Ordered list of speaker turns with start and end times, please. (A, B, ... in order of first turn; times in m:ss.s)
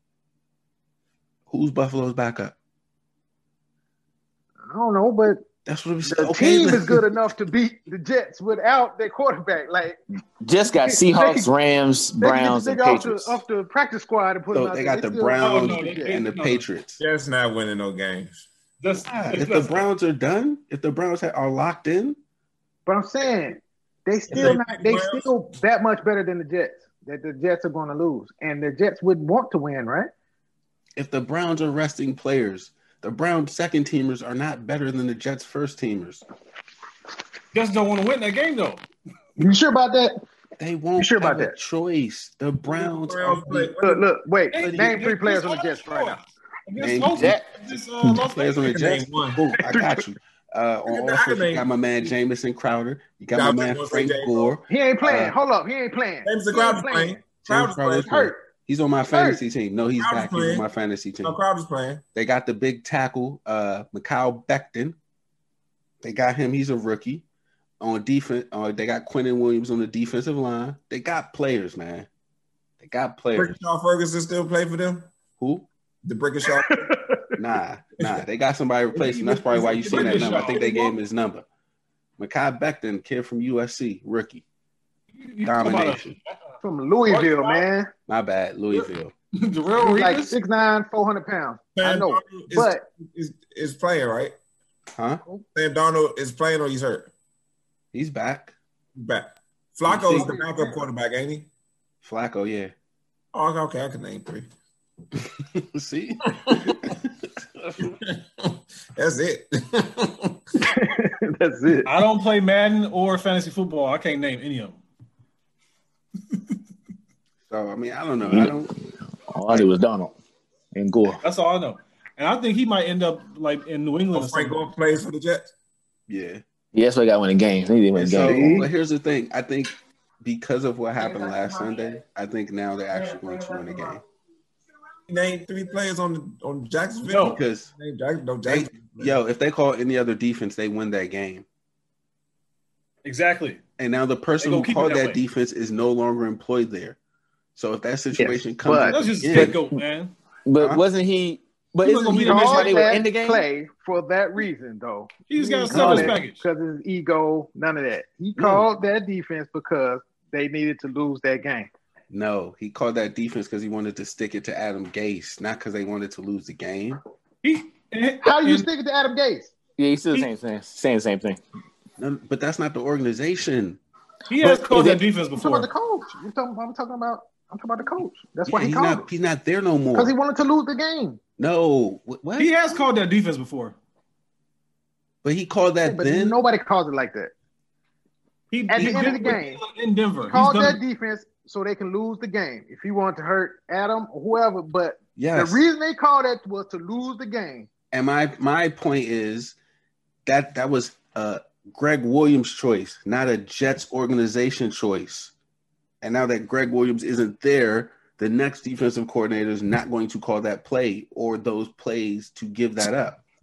0:01.5-0:02.6 A
0:04.7-0:05.4 B
0:05.6-0:07.1 A
0:06.0-0:10.0 B
0:10.4-0:13.4 C
0:10.8-0:11.5 B
0:12.2-0:16.2 B
0:14.5-0:17.0 A
0:15.4-0:16.6 D
0:17.0-0:18.4 E
0:18.8-0:19.9 D
0:19.1-0:22.2 A
0:22.8-0:30.1 B
0:24.3-0:25.3 E
0:31.0-0:36.2 A
0:37.5-0:38.8 D
0:39.4-0:40.2 B
0:40.6-0:43.7 A
0:41.0-0:41.6 B
0:42.7-0:44.0 E
0:43.8-0:46.2 B
0:44.5-0:49.0 D
0:44.6-0:45.0 A
0:46.8-0:47.3 A
0:47.1-0:47.5 C
0:48.2-0:55.3 A
0:48.7-0:49.4 E
0:49.6-0:50.0 B
0:50.9-0:51.7 E
0:53.3-0:54.5 E
0:54.7-0:57.2 B
0:56.2-0:58.2 E
0:57.4-1:01.4 A
0:58.0-0:58.4 B
0:59.1-0:59.4 B
1:00.0-1:00.7 E
1:01.2-1:02.0 E
1:02.1-1:05.0 A
1:06.0-1:07.2 A
1:07.8-1:12.1 A
1:12.8-1:13.5 A
1:13.3-1:15.1 E
1:15.4-1:15.7 A
1:16.0-1:16.9 E
1:16.7-1:17.3 B
1:17.3-1:21.4 A
1:18.9-1:20.6 E
1:19.5-1:20.9 D
1:22.2-1:24.4 A
1:25.2-1:26.3 D
1:25.4-1:26.2 A
1:26.6-1:27.9 B
1:27.1-1:27.6 D
1:28.1-1:29.1 A
1:28.7-1:30.3 D
1:29.8-1:32.8 B
1:31.8-1:34.3 E
1:35.0-1:35.2 A
1:35.5-1:37.1 E
1:37.9-1:38.5 A
1:39.0-1:41.5 E
1:39.8-1:40.4 A
1:40.1-1:40.8 B
1:42.0-1:42.7 A
1:43.3-1:44.5 E
1:45.3-1:47.2 A
1:47.8-1:50.4 E
1:50.6-1:51.9 B
1:51.8-1:54.8 D
1:57.5-1:58.7 A
1:58.2-1:58.6 C
1:59.3-2:00.1 C
2:00.7-2:01.2 C
2:01.2-2:04.6 D
2:04.1-2:05.5 E
2:06.1-2:06.4 A
2:06.7-2:08.6 C
2:07.9-2:14.0 A
2:08.2-2:08.7 B
2:15.1-2:19.2 E
2:17.1-2:17.4 D
2:17.2-2:17.7 A
2:18.4-2:21.4 A
2:23.0-2:23.6 D
2:23.8-2:27.0 A
2:24.4-2:25.2 D
2:27.6-2:29.6 A
2:28.1-2:29.0 B
2:28.9-2:30.1 D
2:30.4-2:33.4 C
2:31.8-2:32.9 D
2:32.1-2:41.7 B
2:35.3-2:36.4 D
2:35.7-2:36.2 A
2:38.4-2:38.6 A
2:42.1-2:47.0 A
2:47.4-2:48.7 D
2:48.2-2:49.5 B
2:49.8-2:51.4 C
2:52.0-2:53.8 A
2:54.3-2:55.7 D
2:54.4-2:55.0 C
2:55.4-2:59.1 B
2:58.5-3:00.1 A
2:59.9-3:01.2 B
3:01.4-3:02.5 A
3:02.4-3:03.8 D
3:05.2-3:06.4 A
3:05.8-3:07.3 B
3:08.5-3:10.8 D
3:08.7-3:09.6 B
3:08.8-3:09.3 A
3:10.3-3:17.7 B
3:15.2-3:15.6 A
3:17.9-3:19.6 A
3:20.2-3:25.3 A
3:26.0-3:33.2 A